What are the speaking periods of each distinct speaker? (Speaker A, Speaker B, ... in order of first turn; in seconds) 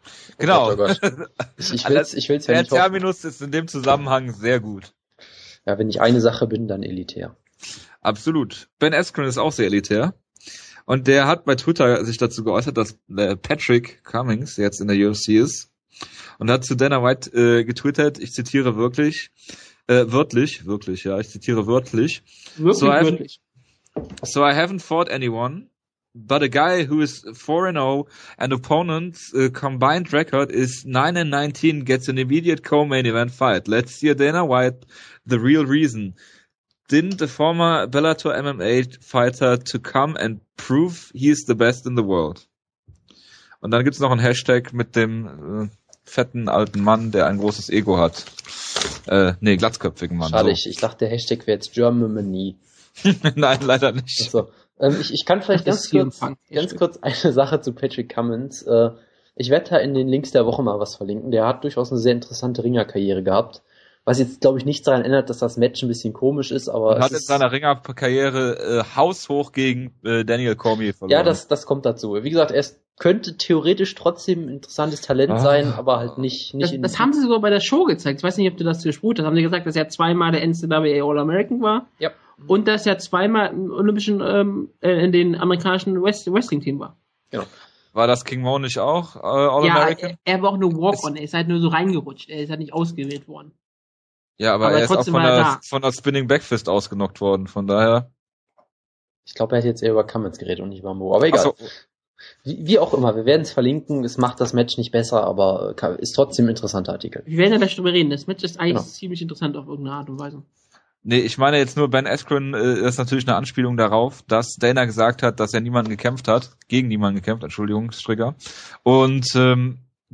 Speaker A: 0.4-1.0, 1.6-3.0, 5.7-7.3, 50.2-52.6, 54.2-67.4, 71.1-77.1, 99.3-101.7, 102.4-107.2
Speaker B: 0.4-4.9, 8.0-10.2, 10.9-15.7, 16.4-19.3, 19.9-23.2, 24.2-36.1, 36.9-42.4, 43.6-50.6, 53.0-54.3, 66.9-71.4, 75.3-75.8, 87.9-90.2, 94.4-98.1, 101.3-101.7, 111.0-119.8
Speaker C: 22.6-23.4, 55.6-56.8, 76.6-81.9, 82.5-86.9, 89.6-93.5, 94.6-95.6, 107.3-110.4